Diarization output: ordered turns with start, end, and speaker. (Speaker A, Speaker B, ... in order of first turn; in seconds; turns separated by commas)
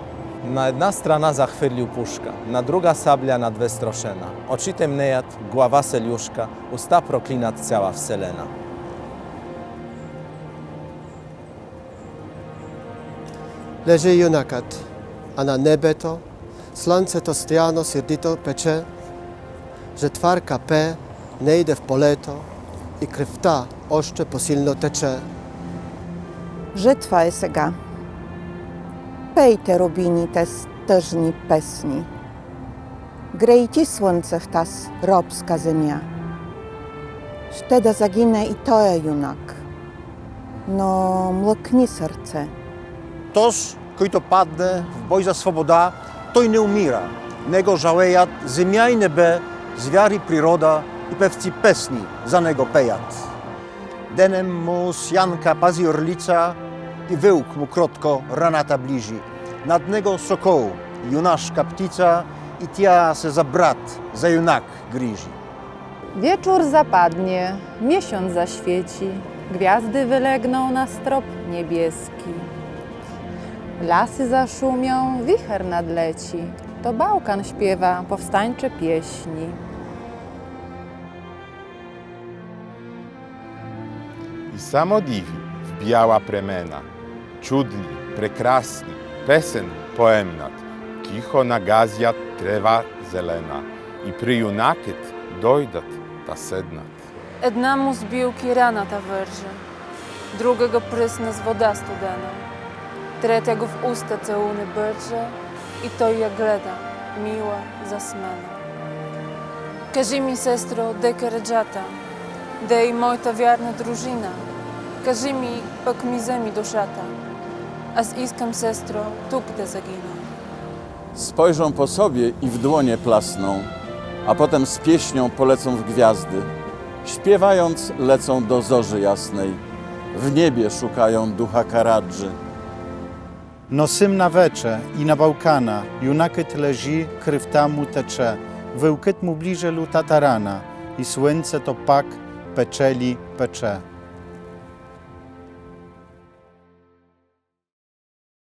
Speaker A: 0.4-8.5, Speaker B: 13.8-14.8, Speaker B: 15.4-16.2, Speaker B: 16.8-18.9, Speaker B: 20.0-22.5, Speaker B: 23.0-25.2, Speaker C: 26.7-27.8, Speaker C: 29.3-32.1, Speaker C: 33.3-36.1, Speaker C: 37.5-39.6, Speaker C: 40.7-42.5, Speaker D: 43.3-53.3, Speaker D: 54.1-65.4, Speaker E: 66.2-72.5, Speaker E: 73.8-79.6, Speaker F: 84.5-86.9, Speaker F: 87.4-97.0, Speaker G: 97.4-99.6, Speaker G: 100.3-102.4, Speaker G: 103.2-108.6, Speaker G: 109.9-112.0, Speaker G: 112.6-114.5, Speaker G: 115.0-117.1, Speaker G: 117.9-120.2, Speaker H: 121.2-123.7, Speaker H: 124.2-126.5, Speaker H: 127.0-129.6, Speaker H: 130.1-132.4, Speaker I: 133.7-143.8